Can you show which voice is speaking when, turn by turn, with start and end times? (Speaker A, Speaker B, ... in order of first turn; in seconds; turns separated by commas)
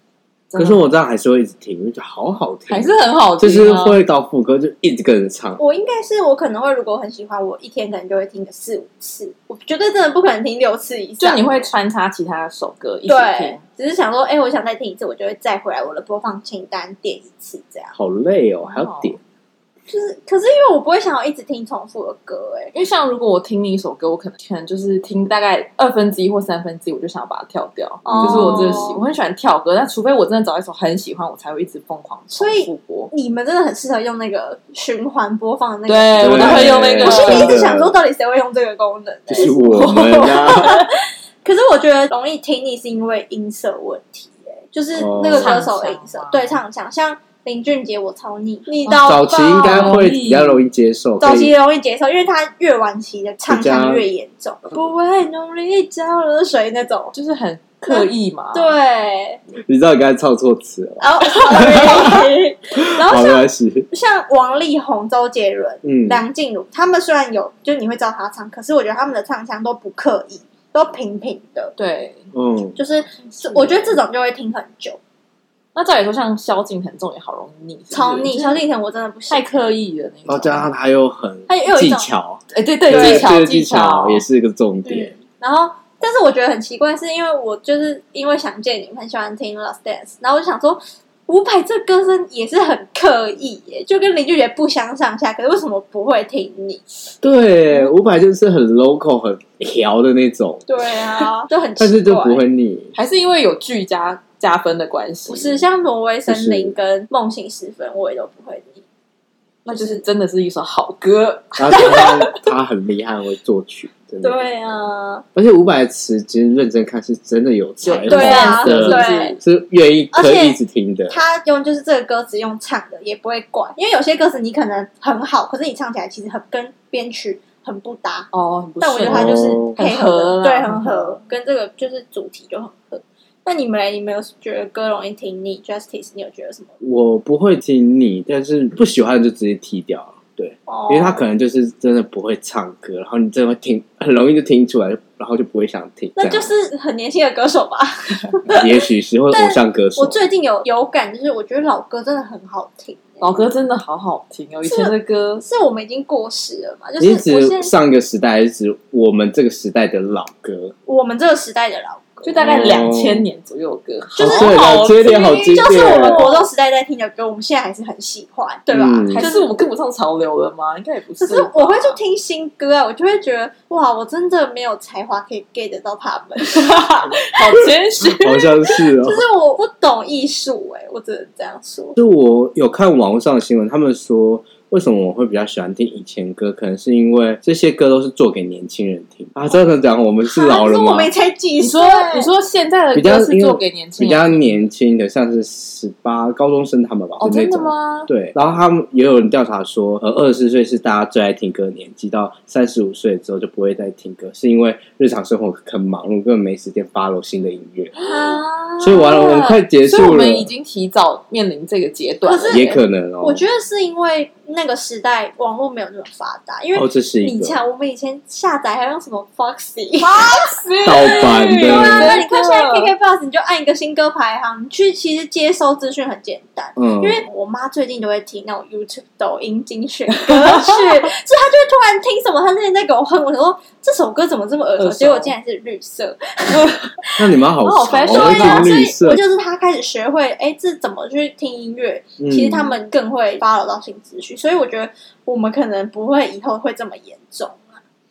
Speaker A: 0.5-0.9, Speaker B: 0.6-5.6, Speaker A: 2.7-4.0, Speaker C: 5.6-11.7, Speaker A: 11.2-13.6, Speaker C: 13.1-17.9, Speaker B: 17.9-19.2, Speaker A: 18.6-19.2, Speaker C: 19.9-22.7, Speaker A: 22.7-33.1, Speaker C: 28.1-29.0, Speaker B: 28.1-28.8, Speaker C: 32.3-40.9, Speaker A: 35.9-37.6, Speaker B: 36.2-38.0, Speaker B: 39.3-40.8, Speaker A: 39.7-40.7, Speaker C: 41.4-50.0, Speaker B: 45.0-45.5, Speaker A: 45.4-46.6, Speaker A: 48.9-50.6, Speaker B: 49.0-51.5, Speaker C: 51.2-57.1, Speaker B: 53.5-54.0, Speaker A: 57.1-58.7, Speaker C: 57.9-59.4, Speaker B: 59.6-63.9, Speaker C: 61.0-71.8, Speaker B: 65.8-66.2, Speaker A: 71.8-72.3, Speaker B: 72.3-72.8, Speaker C: 72.8-75.0, Speaker A: 73.2-74.0, Speaker A: 75.8-78.6, Speaker C: 77.9-79.5, Speaker A: 79.3-80.7, Speaker B: 80.3-85.1, Speaker C: 81.5-82.1, Speaker A: 82.5-84.2, Speaker C: 82.9-83.3, Speaker C: 84.8-96.8, Speaker B: 97.2-100.7, Speaker C: 100.7-102.4, Speaker B: 101.8-103.0, Speaker A: 103.0-105.7, Speaker C: 105.3-108.8, Speaker B: 106.3-106.8, Speaker A: 109.7-112.3, Speaker C: 109.7-110.0, Speaker B: 111.6-114.5, Speaker C: 111.8-112.2, Speaker C: 114.2-115.2, Speaker B: 115.3-121.2, Speaker A: 117.8-119.4, Speaker C: 118.1-119.4, Speaker C: 120.1-120.6, Speaker C: 121.1-128.3, Speaker A: 128.3-131.2, Speaker C: 128.8-136.7, Speaker B: 129.0-129.7, Speaker B: 136.8-146.5, Speaker C: 140.7-141.2, Speaker C: 146.2-148.8, Speaker B: 148.5-150.2, Speaker C: 149.3-153.4, Speaker A: 153.2-155.4, Speaker C: 154.6-157.7, Speaker B: 157.0-160.7, Speaker C: 160.9-162.4, Speaker A: 162.2-166.5, Speaker B: 162.4-163.2, Speaker C: 164.2-169.6, Speaker B: 164.2-166.2, Speaker B: 168.7-169.3, Speaker A: 169.1-172.0, Speaker C: 171.2-176.9, Speaker A: 176.5-178.7, Speaker B: 178.0-179.2, Speaker C: 178.7-182.0, Speaker B: 182.0-191.1, Speaker C: 190.2-192.3, Speaker A: 191.6-194.4, Speaker B: 192.9-208.0, Speaker A: 197.2-198.1, Speaker A: 207.9-208.4, Speaker C: 208.0-209.2, Speaker B: 208.8-210.5, Speaker A: 208.9-212.8, Speaker C: 212.2-212.7, Speaker B: 212.5-213.4, Speaker C: 213.2-237.2, Speaker B: 216.8-217.6, Speaker A: 220.0-222.9, Speaker B: 220.9-222.2, Speaker B: 226.8-227.2, Speaker A: 230.2-231.1, Speaker A: 234.8-235.3, Speaker A: 236.5-237.0, Speaker B: 237.2-239.2, Speaker A: 237.6-238.8, Speaker C: 238.1-247.8, Speaker B: 242.2-242.8